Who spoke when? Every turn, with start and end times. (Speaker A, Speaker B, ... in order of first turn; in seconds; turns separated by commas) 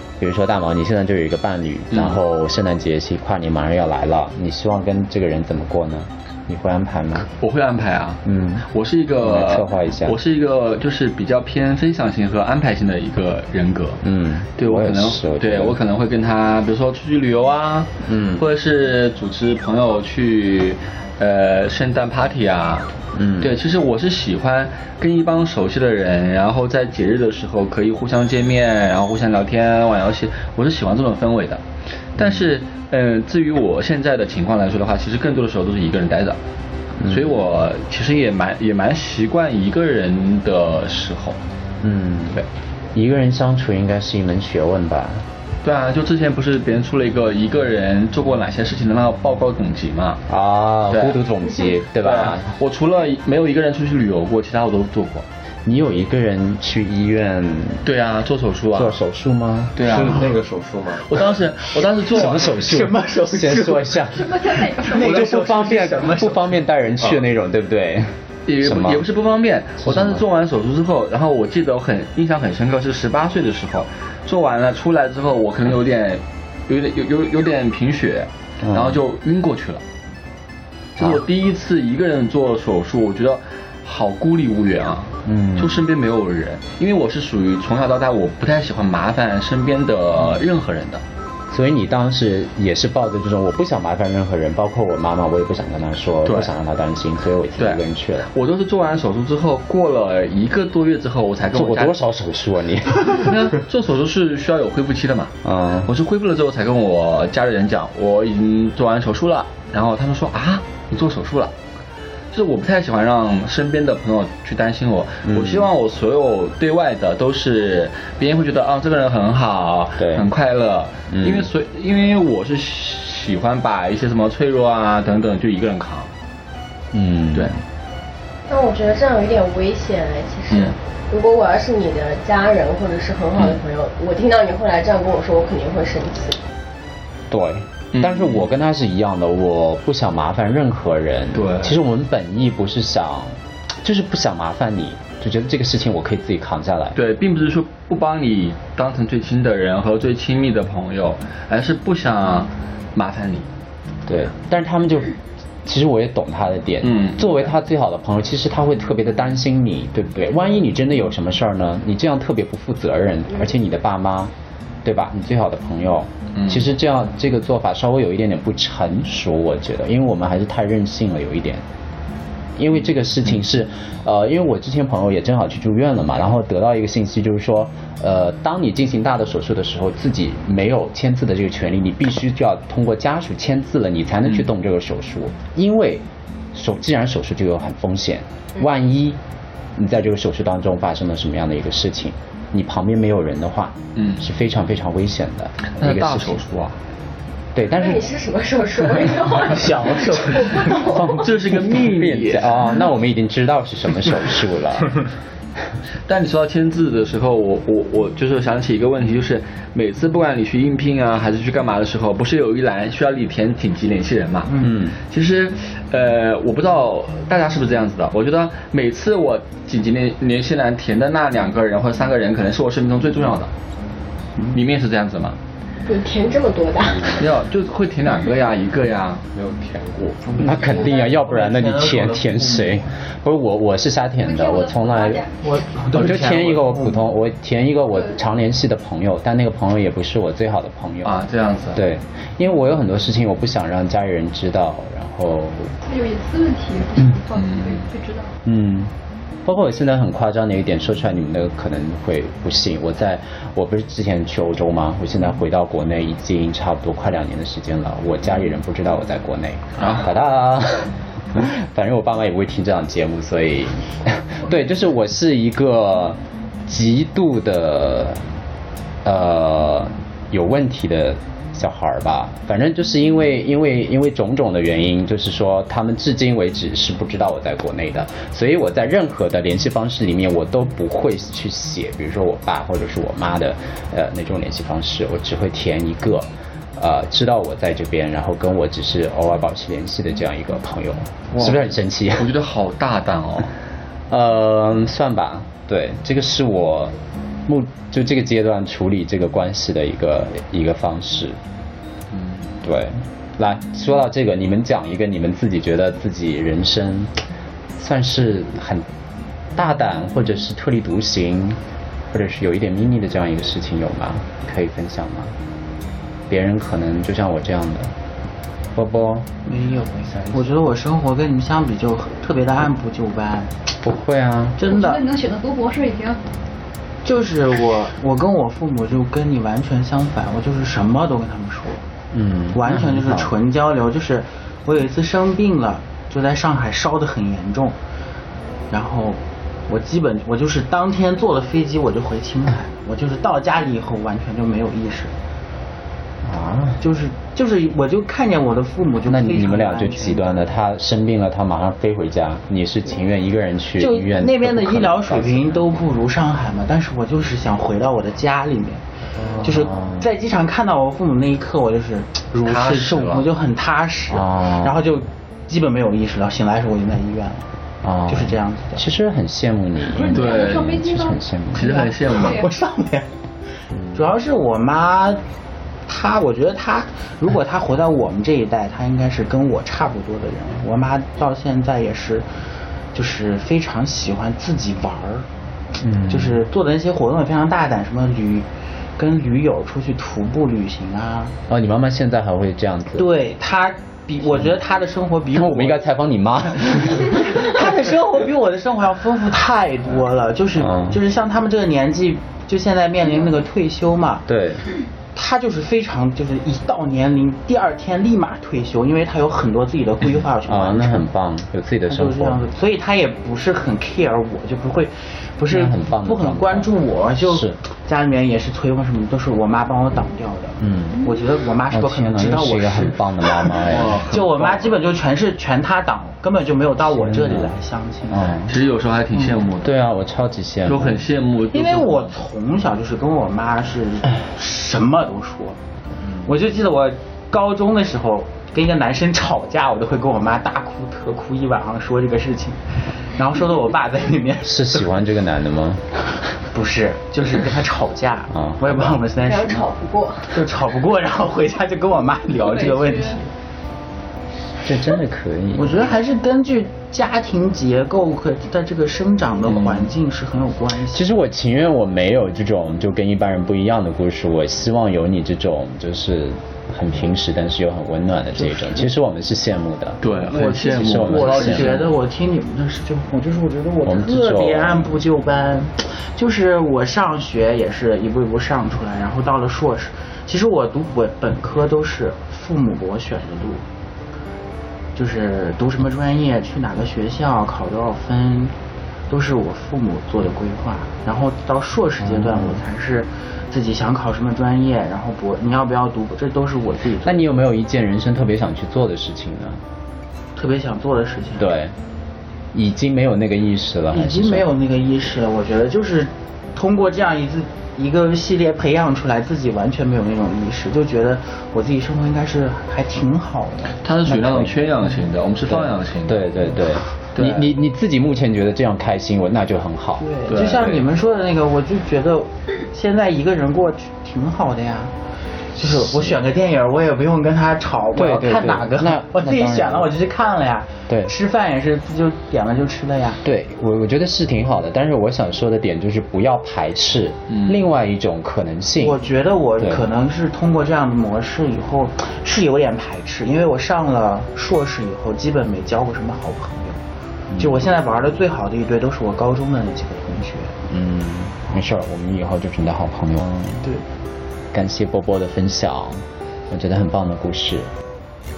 Speaker A: 0.2-7.3, Speaker B: 1.9-2.2, Speaker B: 7.3-14.0, Speaker A: 8.2-8.7, Speaker A: 9.2-10.2, Speaker A: 14.0-15.8, Speaker B: 14.6-22.9, Speaker A: 18.0-18.4, Speaker A: 23.1-23.6, Speaker B: 23.4-31.6, Speaker B: 32.1-36.4, Speaker A: 32.2-32.5, Speaker A: 37.0-37.4, Speaker B: 37.0-41.4, Speaker A: 41.8-45.3, Speaker B: 45.6-50.2, Speaker A: 50.3-52.5, Speaker B: 50.9-55.2, Speaker A: 55.6-57.9, Speaker B: 57.8-59.0, Speaker A: 58.7-59.9, Speaker B: 59.7-60.2, Speaker C: 59.8-61.3, Speaker B: 61.0-62.5, Speaker A: 62.1-64.4, Speaker D: 62.5-66.6, Speaker E: 64.1-65.2, Speaker A: 64.9-69.0, Speaker B: 68.5-79.8, Speaker A: 69.8-70.2, Speaker A: 78.6-79.0, Speaker B: 81.0-91.0, Speaker A: 85.2-85.8, Speaker A: 91.5-98.3, Speaker B: 96.2-96.5, Speaker B: 97.6-102.0, Speaker A: 101.5-103.3, Speaker B: 103.1-105.3, Speaker A: 105.4-105.9, Speaker B: 105.8-111.5, Speaker B: 112.3-126.1, Speaker A: 115.2-115.7, Speaker A: 120.0-120.3, Speaker A: 121.1-121.5, Speaker A: 126.9-127.6, Speaker F: 128.5-136.4, Speaker B: 130.5-130.8, Speaker A: 137.3-146.9, Speaker B: 137.9-138.4, Speaker B: 141.3-141.8, Speaker B: 146.9-153.5, Speaker A: 154.1-164.3, Speaker B: 156.8-157.5, Speaker A: 164.8-171.6, Speaker B: 166.3-166.7, Speaker A: 172.6-189.2, Speaker A: 189.7-196.4, Speaker B: 193.9-194.2, Speaker B: 195.6-196.8, Speaker A: 197.5-198.1, Speaker F: 197.7-201.0, Speaker D: 199.5-200.9, Speaker A: 200.7-205.0, Speaker B: 201.2-202.8, Speaker B: 206.1-223.5, Speaker A: 214.6-215.0, Speaker B: 224.5-225.4, Speaker F: 225.8-227.2, Speaker B: 227.2-229.2, Speaker C: 229.3-230.2, Speaker D: 230.2-232.8, Speaker A: 230.4-235.2, Speaker E: 234.2-235.5, Speaker D: 235.4-237.0, Speaker A: 235.9-241.2, Speaker E: 237.9-238.2, Speaker B: 241.0-241.8, Speaker A: 241.7-245.7, Speaker E: 245.8-248.3, Speaker B: 247.3-247.9, Speaker A: 248.4-248.9, Speaker A: 249.4-268.3, Speaker B: 259.8-260.1, Speaker A: 269.0-292.3, Speaker B: 291.3-293.5, Speaker A: 294.1-301.4, Speaker B: 302.1-302.5, Speaker A: 302.6-307.1, Speaker A: 307.8-308.9, Speaker A: 309.5-315.4, Speaker A: 316.3-317.9, Speaker A: 318.7-319.3, Speaker D: 319.4-323.6, Speaker A: 323.8-324.6, Speaker D: 324.6-325.0, Speaker E: 324.7-326.2, Speaker D: 327.0-331.8, Speaker A: 332.1-333.3, Speaker D: 332.5-337.8, Speaker D: 338.7-345.1, Speaker A: 346.2-346.8, Speaker D: 346.8-350.3, Speaker A: 349.1-355.8, Speaker D: 353.8-358.8, Speaker A: 359.1-360.1, Speaker D: 359.4-367.5, Speaker B: 362.4-363.3, Speaker A: 364.1-364.8, Speaker A: 367.8-371.7, Speaker D: 368.1-368.9, Speaker E: 369.9-372.5, Speaker B: 370.1-370.7, Speaker B: 371.5-372.4, Speaker D: 372.1-373.1, Speaker A: 373.7-374.1, Speaker D: 373.9-375.2, Speaker D: 375.9-382.2, Speaker D: 382.9-385.3, Speaker A: 385.8-386.4, Speaker D: 386.1-388.4, Speaker D: 389.0-391.3, Speaker A: 391.5-393.1, Speaker D: 392.9-395.8, Speaker A: 394.3-394.5, Speaker A: 395.3-397.6, Speaker D: 396.7-404.2, Speaker A: 400.5-401.0, Speaker A: 404.3-404.7, Speaker D: 405.1-411.1, Speaker A: 410.4-412.4, Speaker D: 411.9-428.5, Speaker A: 415.5-417.6, Speaker A: 420.6-421.1, Speaker A: 421.7-424.2, Speaker B: 423.6-424.7, Speaker A: 426.8-427.5, Speaker A: 428.1-428.5, Speaker B: 428.5-429.7, Speaker A: 429.6-431.0, Speaker B: 430.6-432.1, Speaker D: 431.5-435.6, Speaker A: 436.0-436.3, Speaker D: 436.2-444.9, Speaker A: 444.4-445.8, Speaker D: 446.5-449.7, Speaker A: 448.3-448.9, Speaker F: 449.2-450.3, Speaker D: 450.3-453.2, Speaker E: 452.4-453.2, Speaker A: 454.6-456.0, Speaker D: 455.5-461.0, Speaker B: 459.5-459.8, Speaker A: 460.9-471.8, Speaker D: 468.3-468.9, Speaker B: 470.0-471.9, Speaker D: 470.2-483.6, Speaker A: 473.8-475.0, Speaker D: 484.9-488.5, Speaker D: 489.1-497.2, Speaker A: 492.0-492.6, Speaker A: 497.0-499.6, Speaker D: 500.4-501.5, Speaker A: 501.4-501.7, Speaker A: 502.5-504.5, Speaker D: 503.9-513.8, Speaker B: 513.8-516.3, Speaker A: 514.0-514.6, Speaker A: 515.5-520.9, Speaker B: 517.1-517.5, Speaker D: 520.0-524.9, Speaker B: 520.3-520.7, Speaker D: 525.5-533.2, Speaker A: 525.6-526.2, Speaker A: 527.9-529.9, Speaker A: 530.9-531.1, Speaker A: 533.2-539.0, Speaker B: 537.3-537.6, Speaker D: 538.8-546.8, Speaker A: 539.6-539.8, Speaker A: 547.3-547.7, Speaker D: 547.4-550.5, Speaker A: 550.7-553.7, Speaker A: 554.5-557.7